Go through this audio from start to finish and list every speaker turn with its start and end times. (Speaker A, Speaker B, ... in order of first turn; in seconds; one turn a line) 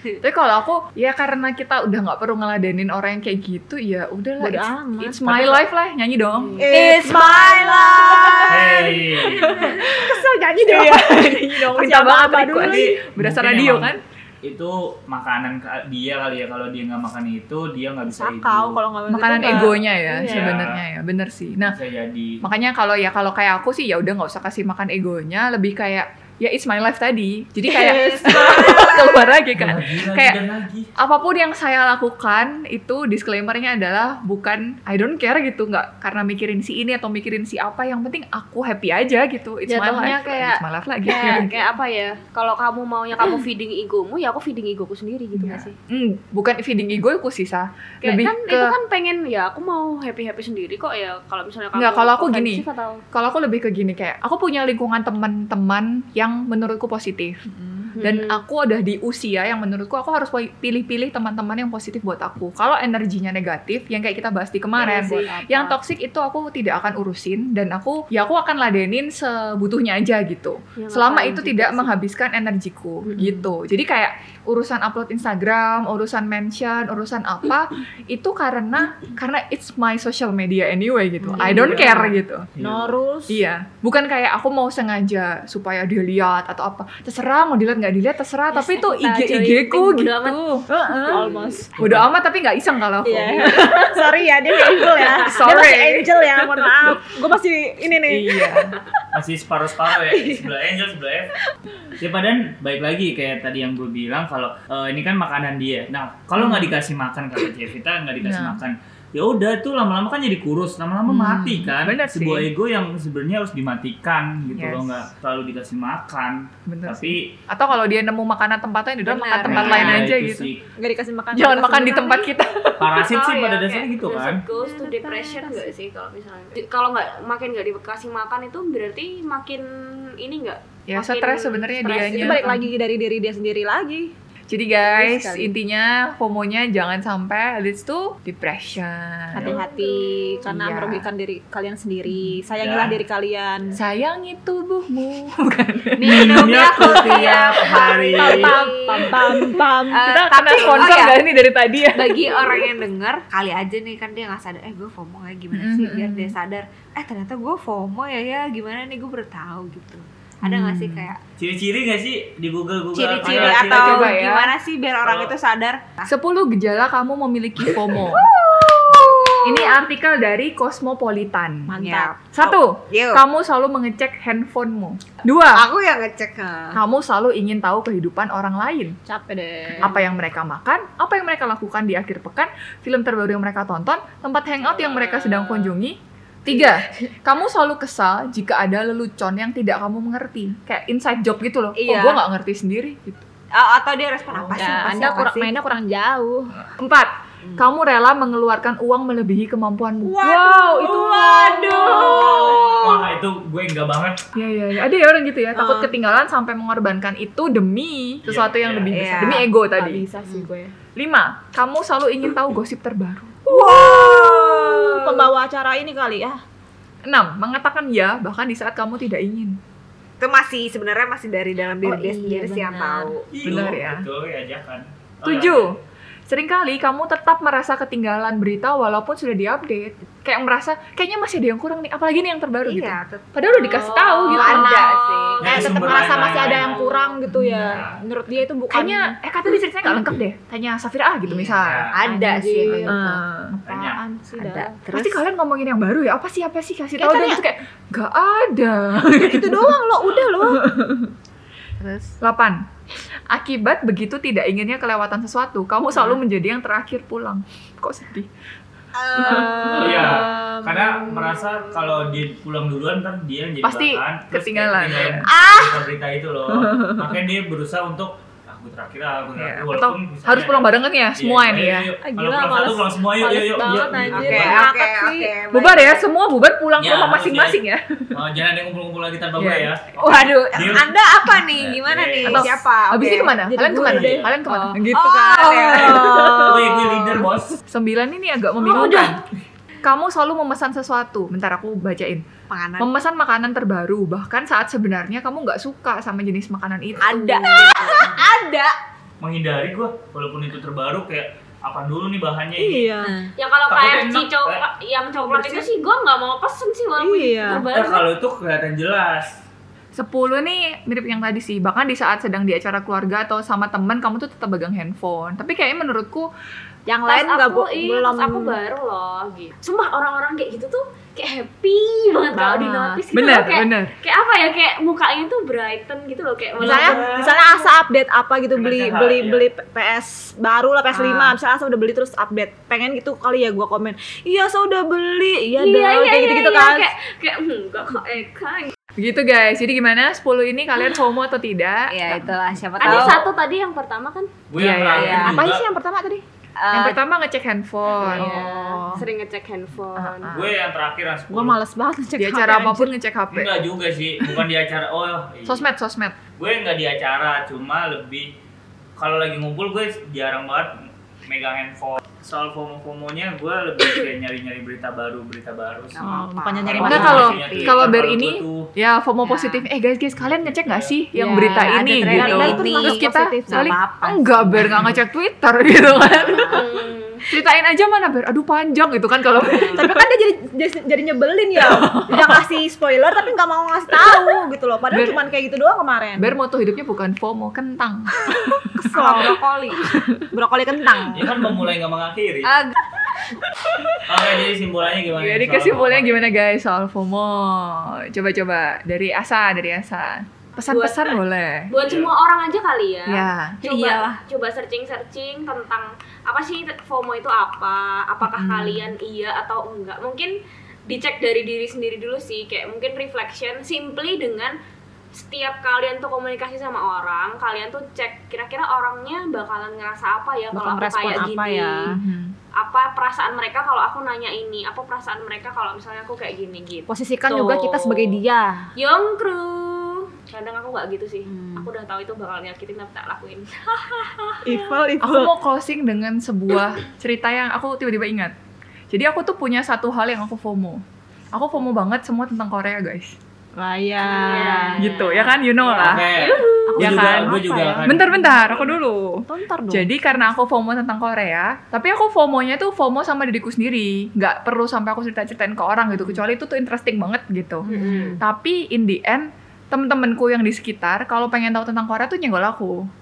Speaker A: 0.2-6.7
Speaker B: 4.4-5.2
Speaker C: 5.2-5.6
Speaker D: 6.5-6.8
Speaker E: 6.6-8.4
Speaker B: 6.6-12.9
Speaker C: 8.4-9.6
Speaker A: 9.2-14.0
Speaker C: 12.6-18.8
Speaker B: 18.1-19.8
Speaker A: 19.1-21.8
Speaker C: 19.5-20.8
Speaker D: 20.1-20.5
Speaker C: 21.6-22.4
Speaker A: 22.4-30.4
Speaker B: 27.7-29.2
Speaker C: 29.6-30.9
Speaker A: 31.0-41.5
Speaker D: 39.7-45.7
Speaker A: 45.4-48.7
Speaker D: 48.0-53.0
Speaker A: 51.7-57.4
Speaker B: 57.5-57.9
Speaker D: 58.0-58.4
Speaker A: 58.0-82.5
Speaker B: 64.8-65.8
Speaker D: 70.8-72.0
Speaker B: 81.3-83.4
Speaker C: 82.5-83.0
Speaker A: 83.3-91.2
Speaker D: 88.5-90.4
Speaker B: 90.7-91.7
Speaker D: 91.1-91.5
Speaker A: 91.8-94.1
Speaker C: 91.8-92.1
Speaker B: 93.0-98.7
Speaker A: 94.8-96.6
Speaker D: 94.8-95.4
Speaker A: 98.1-98.7
Speaker C: 99.1-101.3
Speaker B: 100.1-100.3
Speaker C: 102.0-117.3
Speaker A: 106.4-106.7
Speaker A: 108.2-108.6
Speaker A: 111.1-112.5
Speaker A: 114.5-115.0
Speaker A: 116.7-120.5
Speaker E: 119.0-119.9
Speaker B: 119.4-119.8
Speaker C: 119.4-120.7
Speaker B: 120.8-122.3
Speaker A: 121.3-123.1
Speaker C: 122.8-124.4
Speaker D: 123.1-132.4
Speaker B: 124.5-125.7
Speaker A: 130.9-132.7
Speaker B: 131.8-134.1
Speaker A: 134.5-139.6
Speaker B: 134.8-135.5
Speaker B: 139.3-143.8
Speaker D: 139.4-140.4
Speaker A: 140.4-141.1
Speaker A: 142.1-142.3
Speaker C: 142.5-143.0
Speaker A: 143.8-152.6
Speaker E: 146.0-149.1
Speaker C: 146.0-148.6
Speaker B: 148.1-150.0
Speaker E: 149.9-151.2
Speaker B: 150.6-150.9
Speaker E: 151.9-161.2
Speaker A: 155.5-156.3
Speaker A: 160.4-161.1
Speaker C: 161.4-164.2
Speaker E: 162.9-166.1
Speaker A: 163.2-164.5
Speaker C: 165.0-165.3
Speaker A: 166.1-168.3
Speaker E: 167.6-169.8
Speaker A: 169.4-171.7
Speaker B: 171.7-172.1
Speaker E: 171.8-173.2
Speaker A: 172.3-175.7
Speaker E: 175.5-176.7
Speaker A: 176.7-179.0
Speaker B: 179.1-179.9
Speaker A: 179.8-193.2
Speaker D: 184.6-185.7
Speaker E: 191.8-192.2
Speaker E: 193.5-195.5
Speaker B: 194.4-196.5
Speaker A: 196.8-202.0
Speaker E: 200.0-203.1
Speaker B: 201.6-202.6
Speaker C: 201.9-204.2
Speaker A: 204.3-210.0
Speaker C: 208.2-209.3
Speaker E: 208.9-209.5
Speaker B: 209.4-210.7
Speaker A: 211.0-213.5
Speaker B: 213.5-216.4
Speaker E: 213.5-215.3
Speaker A: 217.1-219.6
Speaker E: 220.2-223.3
Speaker B: 221.8-223.2
Speaker C: 223.3-225.7
Speaker A: 223.4-224.1
Speaker A: 225.2-225.8
Speaker A: 226.3-234.8
Speaker E: 232.6-233.3
Speaker D: 233.4-237.1
Speaker B: 234.3-234.7
Speaker E: 234.3-236.4
Speaker C: 235.4-236.9
Speaker B: 235.4-239.2
Speaker A: 237.3-237.8
Speaker C: 237.6-238.0
Speaker A: 238.7-241.9
Speaker E: 241.3-243.2
Speaker C: 241.5-242.0
Speaker B: 242.0-244.7
Speaker A: 242.6-243.6
Speaker C: 243.6-244.0
Speaker E: 244.4-245.2
Speaker A: 244.9-249.8
Speaker B: 247.0-247.4
Speaker B: 249.2-250.6
Speaker E: 250.0-250.4
Speaker A: 250.5-251.1
Speaker E: 251.8-252.2
Speaker A: 252.2-252.6
Speaker A: 253.3-258.3
Speaker E: 258.9-262.1
Speaker A: 259.1-260.0
Speaker B: 259.2-260.6
Speaker C: 259.8-274.6
Speaker A: 263.6-265.3
Speaker E: 265.3-265.8
Speaker A: 266.5-267.1
Speaker A: 269.4-271.9
Speaker B: 272.0-275.3
Speaker E: 273.7-276.0
Speaker A: 275.5-278.2
Speaker C: 276.8-277.6
Speaker C: 278.1-280.9
Speaker A: 279.4-281.5
Speaker E: 280.6-283.3
Speaker C: 281.5-282.5
Speaker A: 282.2-286.4
Speaker B: 283.4-286.3
Speaker C: 283.8-284.4
Speaker E: 284.9-287.1
Speaker C: 286.3-287.6
Speaker A: 287.7-289.2
Speaker D: 288.6-289.2
Speaker A: 289.8-292.2
Speaker E: 292.5-292.9
Speaker A: 292.8-297.4
Speaker E: 297.0-298.7
Speaker B: 297.1-297.9
Speaker C: 297.9-298.1
Speaker C: 299.2-302.9
Speaker B: 302.6-303.1
Speaker E: 303.0-303.3
Speaker D: 303.4-308.1
Speaker C: 303.7-304.6
Speaker E: 305.3-305.6
Speaker B: 307.0-307.6
Speaker C: 307.7-309.4
Speaker A: 309.9-316.3
Speaker B: 316.9-318.6
Speaker D: 317.1-327.7
Speaker B: 322.3-323.0
Speaker A: 323.1-323.9
Speaker B: 326.6-336.9
Speaker C: 326.7-327.4
Speaker C: 328.5-329.5
Speaker D: 335.5-338.7
Speaker A: 339.0-342.3
Speaker E: 341.9-343.3
Speaker D: 342.8-344.4
Speaker C: 344.5-345.6
Speaker A: 344.6-345.4
Speaker E: 344.9-345.4
Speaker B: 345.0-346.2
Speaker E: 346.6-347.0
Speaker A: 346.7-348.4
Speaker B: 348.0-349.0
Speaker D: 348.0-350.3
Speaker E: 348.2-349.0
Speaker A: 349.9-350.5
Speaker C: 350.3-351.6
Speaker B: 351.3-352.9
Speaker A: 352.2-353.6
Speaker C: 353.3-355.7
Speaker A: 355.4-356.1
Speaker C: 356.4-358.3
Speaker C: 359.0-366.1
Speaker E: 365.9-367.9
Speaker B: 366.0-367.5
Speaker C: 366.6-368.7
Speaker A: 366.8-376.6
Speaker C: 370.2-371.0
Speaker B: 371.1-373.8
Speaker E: 371.6-374.9
Speaker E: 375.9-376.6
Speaker D: 376.5-377.2
Speaker A: 377.3-380.0
Speaker B: 379.7-386.3
Speaker A: 381.8-382.3
Speaker A: 384.9-385.2
Speaker A: 386.2-389.3
Speaker B: 388.7-389.4
Speaker E: 388.9-389.8
Speaker A: 389.9-390.2
Speaker B: 390.2-391.4
Speaker C: 391.1-392.5
Speaker E: 392.4-392.8
Speaker A: 393.1-394.2
Speaker C: 394.1-396.3
Speaker A: 395.1-401.7
Speaker D: 400.7-401.2
Speaker D: 401.7-410.3
Speaker C: 401.8-402.1
Speaker A: 403.1-403.6
Speaker E: 403.6-404.2
Speaker A: 408.2-408.9
Speaker D: 410.9-414.6
Speaker D: 415.1-421.9
Speaker B: 420.5-421.9
Speaker A: 421.9-422.3
Speaker D: 422.6-428.2
Speaker B: 426.9-428.7
Speaker D: 428.8-434.8
Speaker B: 431.3-431.7
Speaker B: 434.4-435.3
Speaker A: 435.0-438.3
Speaker A: 438.9-440.8
Speaker A: 441.3-443.1
Speaker B: 443.6-445.1
Speaker D: 444.0-445.1
Speaker E: 444.4-444.7
Speaker A: 444.8-446.1
Speaker E: 445.7-446.2
Speaker C: 445.8-448.8
Speaker D: 446.0-446.9
Speaker B: 446.6-448.4
Speaker A: 446.8-462.9
Speaker B: 449.3-449.9
Speaker B: 457.7-458.2
Speaker E: 457.7-458.1